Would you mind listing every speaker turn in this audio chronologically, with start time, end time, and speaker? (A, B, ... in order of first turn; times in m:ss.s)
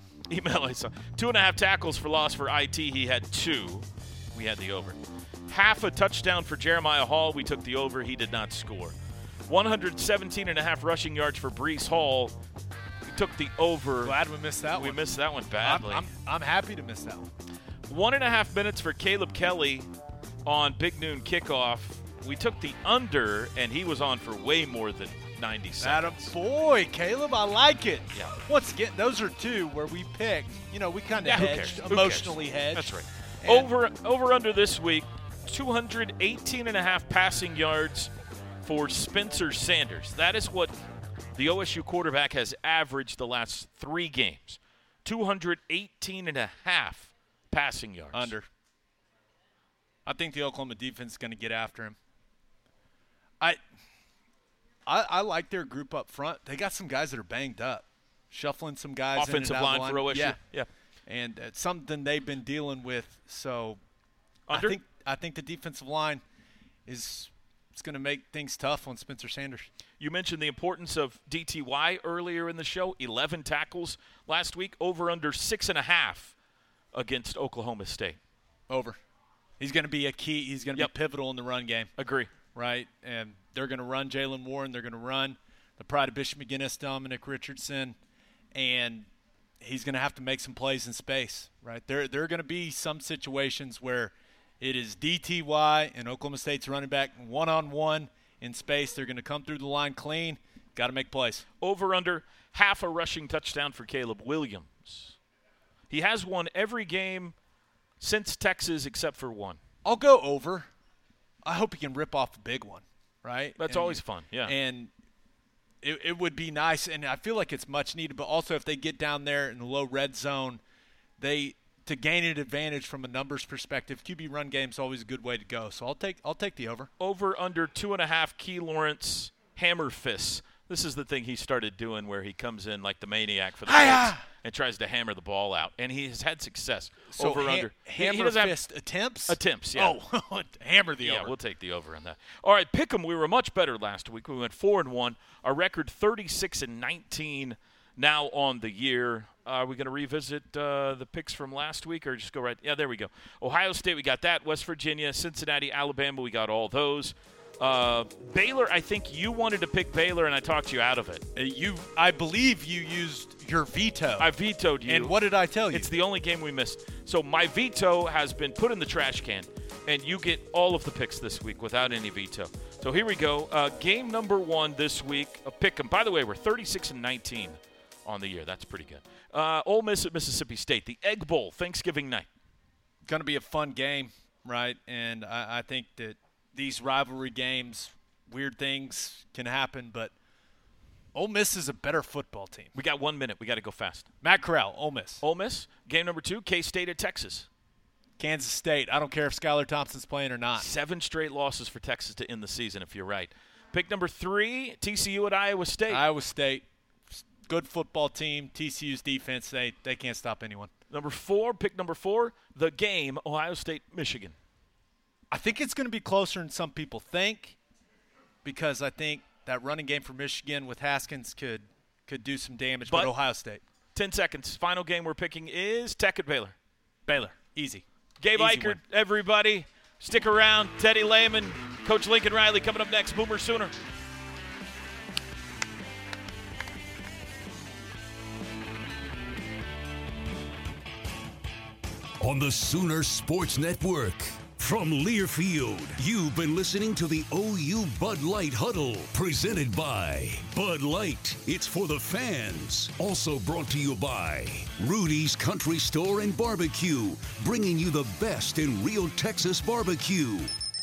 0:00.3-0:09.0 A
0:09.5-0:12.3 A
0:13.1-0:14.2 A
0:14.0-0:15.0 B
0:14.8-0:16.1 A
0:15.6-0:17.3 B
0:17.9-0:19.9 A
0:20.5-0:26.4 A
0:25.8-0:33.7 B
0:31.2-0:38.1 A
0:38.6-0:40.8 A
0:41.4-0:48.3 A
0:48.1-0:48.5 B
0:50.1-0:52.0 B
0:54.9-1:00.4 B
0:59.2-1:00.7 A
1:01.1-1:03.8 B
1:04.5-1:04.8 A
1:04.5-1:06.2 B
1:06.9-1:09.7 B
1:10.0-1:16.3 A
1:16.9-1:18.2 A
1:18.7-1:19.0 B
1:19.6-1:21.9 B
1:22.0-1:22.3 A
1:22.6-1:28.0 B
1:28.6-1:29.1 B
1:29.6-1:41.4 B
1:41.6-1:45.2 A
1:45.9-1:47.4 A
1:48.0-1:49.6 A
1:49.8-1:50.7 B
1:51.4-1:54.9 B
1:53.6-1:54.5 A
1:55.8-2:00.6 B
2:01.2-2:06.9 B
2:07.0-2:18.6 A
2:13.7-2:14.2 B
2:17.1-2:21.3 B
2:19.3-2:20.0 A
2:21.0-2:41.2 A
2:41.4-2:44.3 B
2:44.2-2:45.2 A
2:44.8-2:45.9 B
2:45.7-3:02.3 A
3:03.1-3:10.1 B
3:11.2-3:12.7 B
3:12.8-3:14.1 A
3:14.2-3:15.2 B
3:15.2-3:17.5 A
3:18.2-3:20.7 B
3:20.6-3:26.0 A
3:25.9-3:30.7 B
3:30.9-3:34.4 A
3:35.3-3:37.6 B
3:38.4-3:43.6 B
3:42.9-3:43.1 A
3:44.0-3:46.6 A
3:47.1-3:47.8 B
3:48.2-3:53.7 A
3:48.4-3:48.8 B
4:02.2-4:20.5 C